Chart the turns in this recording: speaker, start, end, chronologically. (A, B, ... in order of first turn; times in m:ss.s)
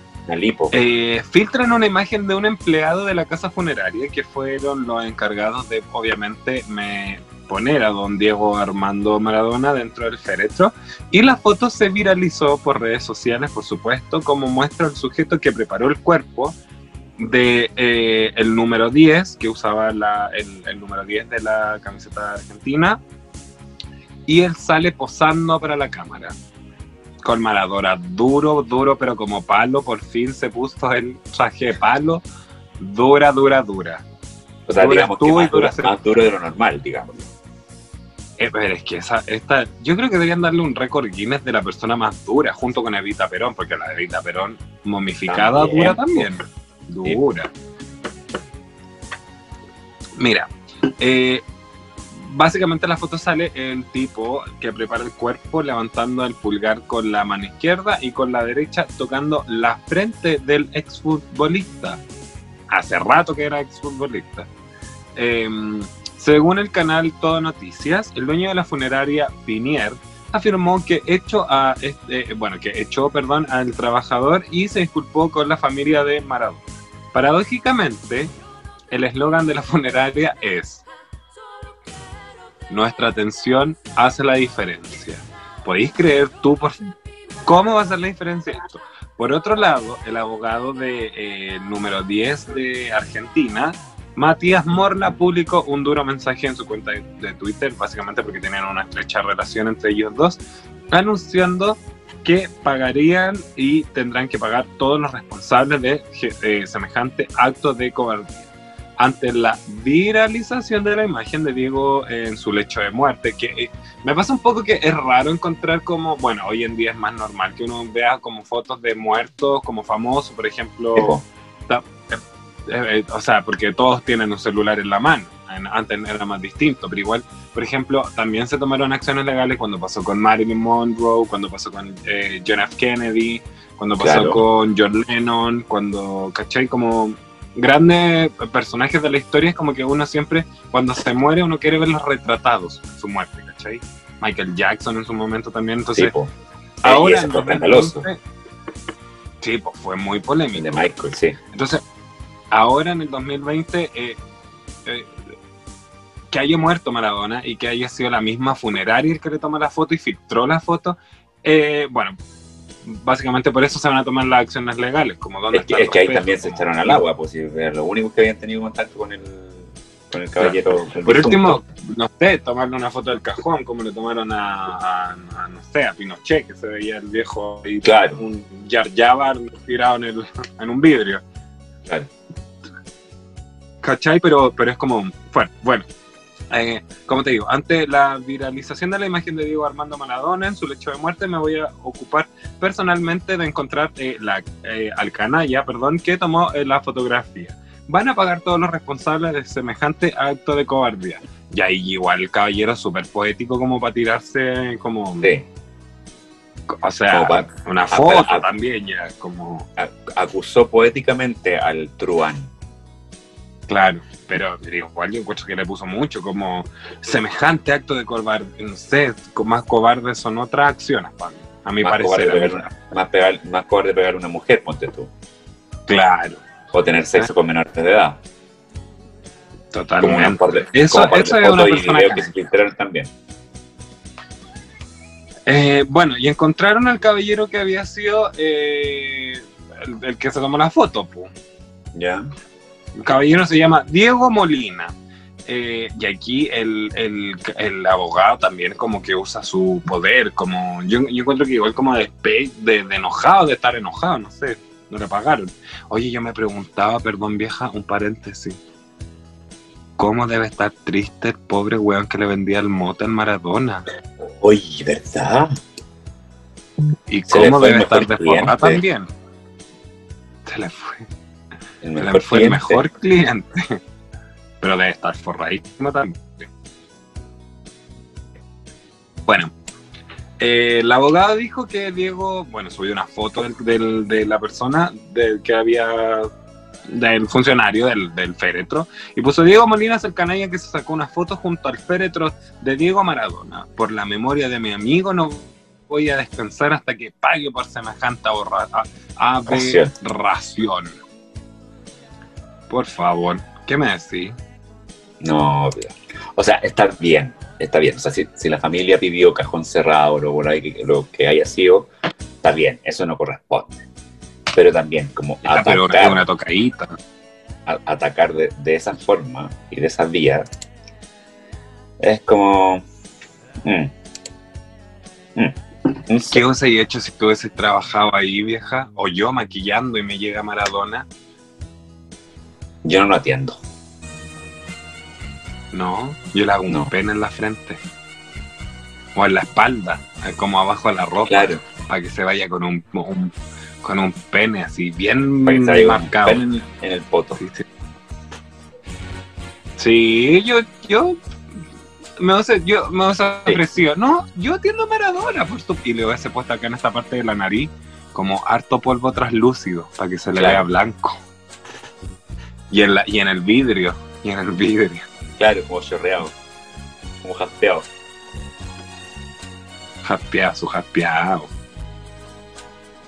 0:00.3-0:00.7 A
0:00.7-0:16.6 B
0:17.2-0:23.0 B
0:24.3-0:26.3 B
0:27.2-0:32.2 B
0:32.8-0:34.0 B
0:34.7-0:37.3 A
0:34.8-0:35.9 B
0:38.4-0:47.5 B
0:45.3-0:46.3 A
0:50.2-0:51.4 B
0:52.1-1:02.0 B
1:02.7-1:04.5 B
1:05.2-1:16.6 B
1:17.1-1:18.3 B
1:18.9-1:20.8 B
1:22.7-1:26.9 B
1:27.4-1:48.3 B
1:49.0-2:26.1 B
2:01.0-2:01.2 A
2:14.0-2:14.4 A
2:25.9-2:26.3 A
2:26.8-2:28.1 A
2:26.8-2:28.2 B
2:29.4-2:30.9 B
2:30.5-2:31.4 A
2:31.5-2:31.8 B
2:32.5-2:34.2 B
2:34.8-2:35.2 B
2:36.3-2:42.2 B
2:42.8-2:47.0 B
2:45.5-2:51.6 A
2:51.0-3:01.2 B
2:57.8-2:58.2 A
3:03.8-3:05.8 B
3:06.5-3:25.3 B
3:25.2-3:25.5 A
3:26.7-3:29.7 B
3:27.1-3:28.5 A
3:29.8-3:32.5 A
3:33.7-3:42.7 B
3:41.8-3:45.1 A
3:45.9-3:46.4 B
3:46.7-3:48.2 A
3:49.7-3:52.3 B
3:50.0-3:53.1 A
3:55.5-4:01.3 B
4:01.9-4:02.3 A
4:03.0-4:04.9 B
4:05.5-4:18.6 B
4:20.0-4:23.9 B
4:24.2-4:25.5 A
4:27.1-4:29.1 B
4:27.3-4:28.8 A
4:30.4-4:31.1 B
4:31.8-4:32.8 A
4:32.0-4:33.8 B
4:34.6-4:36.5 B
4:39.3-4:39.5 B
4:40.4-4:46.3 B
4:46.9-5:01.0 B
4:59.5-4:59.9 A
5:02.7-5:04.3 B
5:05.2-5:11.9 A
5:12.4-5:13.8 A
5:14.5-5:16.2 A
5:15.4-5:17.0 B
5:17.6-5:20.5 A
5:22.0-5:22.8 A
5:23.6-5:23.9 A
5:25.4-5:26.4 A
5:26.2-5:31.0 B
5:32.8-5:33.6 A
5:35.7-5:37.8 B
5:39.2-5:46.6 B
5:41.3-5:41.6 A
5:45.4-5:47.4 A
5:47.4-5:47.6 B
5:49.8-5:51.2 B
5:52.2-6:01.2 B
6:00.4-6:00.6 A
6:02.7-6:05.0 B
6:05.4-6:06.3 A
6:07.2-6:07.9 A
6:10.0-6:11.5 B